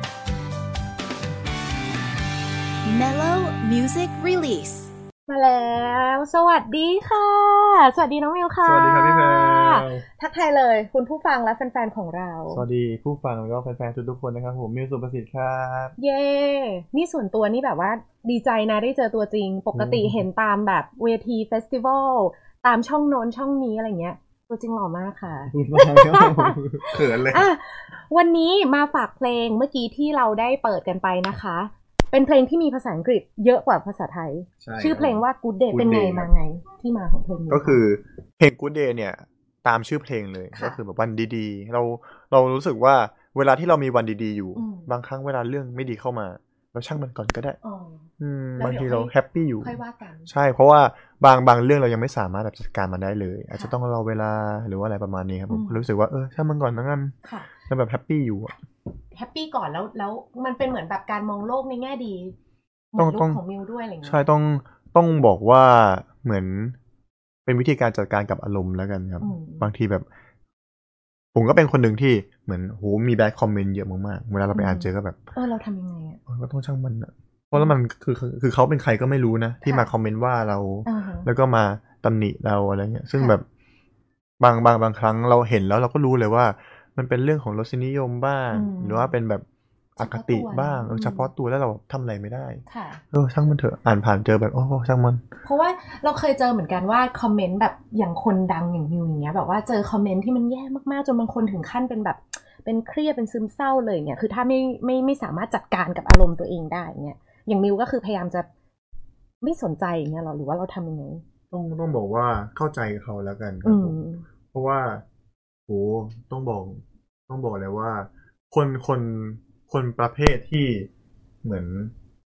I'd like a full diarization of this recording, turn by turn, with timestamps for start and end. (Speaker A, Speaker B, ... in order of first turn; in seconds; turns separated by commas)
Speaker A: 2.8-4.9, Speaker B: 5.3-12.6, Speaker C: 8.6-10.0, Speaker C: 12.5-15.9, Speaker B: 16.0-37.8, Speaker C: 19.7-20.2, Speaker C: 25.5-27.5, Speaker C: 34.6-36.3, Speaker C: 37.5-47.6, Speaker B: 40.5-40.8, Speaker B: 44.5-44.9, Speaker B: 47.6-48.0, Speaker C: 48.2-58.5, Speaker B: 48.6-50.3, Speaker B: 55.5-55.8, Speaker B: 57.2-57.5, Speaker B: 59.1-62.3, Speaker B: 62.9-64.2, Speaker C: 63.0-63.4, Speaker C: 64.0-66.8, Speaker C: 67.5-70.0, Speaker B: 69.2-69.7, Speaker C: 71.3-75.2, Speaker B: 74.5-76.2, Speaker C: 76.3-83.4, Speaker B: 79.6-79.9, Speaker B: 80.8-81.3, Speaker C: 84.4-89.4, Speaker B: 88.5-89.1, Speaker C: 90.0-95.2, Speaker B: 90.0-91.3, Speaker B: 92.7-93.0, Speaker B: 95.4-108.5, Speaker B: 109.4-111.2, Speaker C: 111.5-114.0, Speaker B: 113.6-114.2, Speaker C: 114.5-115.0, Speaker C: 115.7-120.9, Speaker C: 121.4-121.9